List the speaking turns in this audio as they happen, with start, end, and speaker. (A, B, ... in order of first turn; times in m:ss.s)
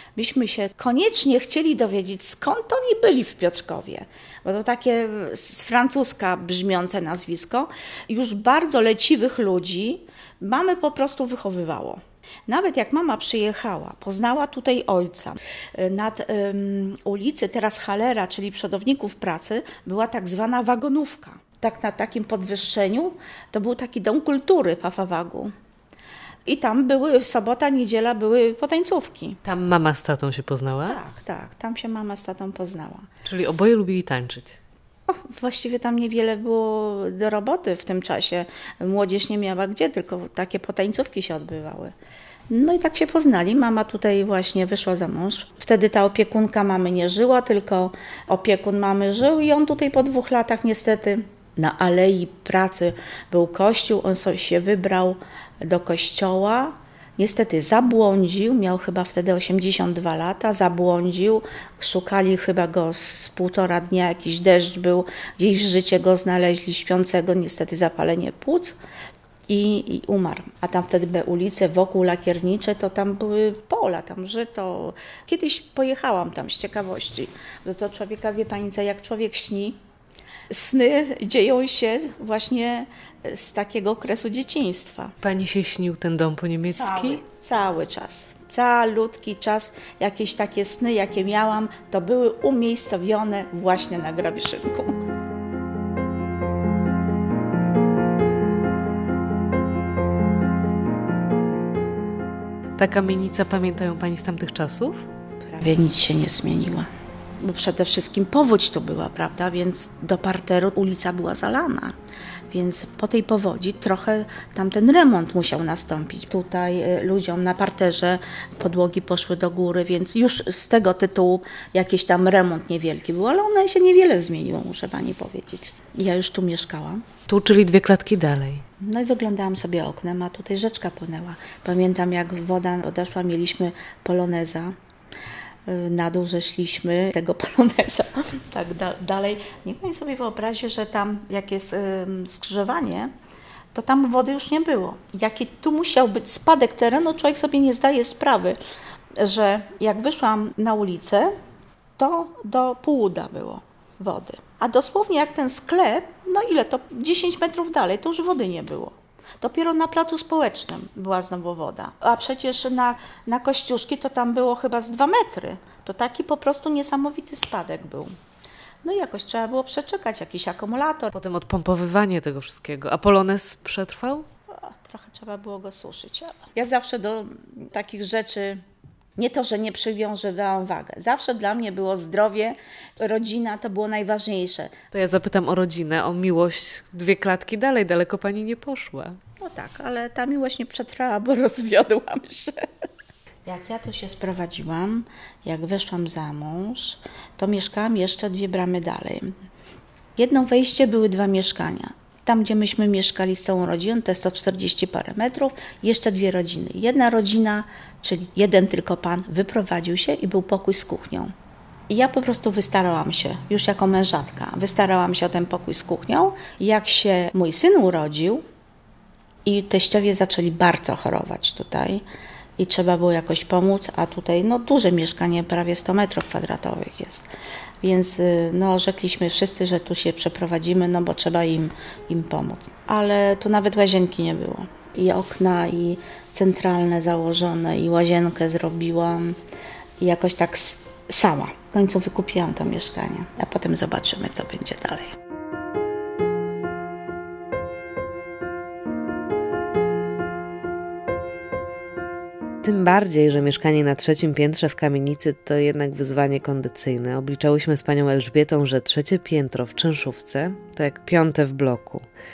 0:00.2-0:25.5 A
0:26.5-0:29.4 A
0:29.4-0:31.0 B
0:30.8-0:33.1 A
0:33.2-0:34.6 B
0:35.1-0:41.9 A
0:42.5-1:08.8 A
1:09.5-1:19.8 A
1:20.5-1:25.1 A
1:25.2-1:27.2 B
1:26.7-1:35.0 A
1:42.8-1:45.0 B
1:45.4-1:46.9 A
1:47.4-1:51.9 A
1:52.5-2:07.0 A
2:07.3-2:08.6 B
2:08.8-2:14.7 A
2:15.7-2:23.1 A
2:23.7-2:28.6 A
2:29.2-2:31.3 A
2:32.0-2:48.1 A
2:48.8-2:51.1 A
2:51.1-2:54.2 B
2:54.5-2:58.6 A
2:59.2-3:04.8 A
3:04.9-3:09.2 B
3:09.4-3:12.5 A
3:13.4-3:19.3 A
3:20.2-3:31.3 A
3:31.9-3:38.4 A
3:39.4-3:42.0 A
3:42.6-3:47.3 A
3:47.8-3:59.4 A
4:00.0-4:05.1 A
4:12.6-4:22.0 B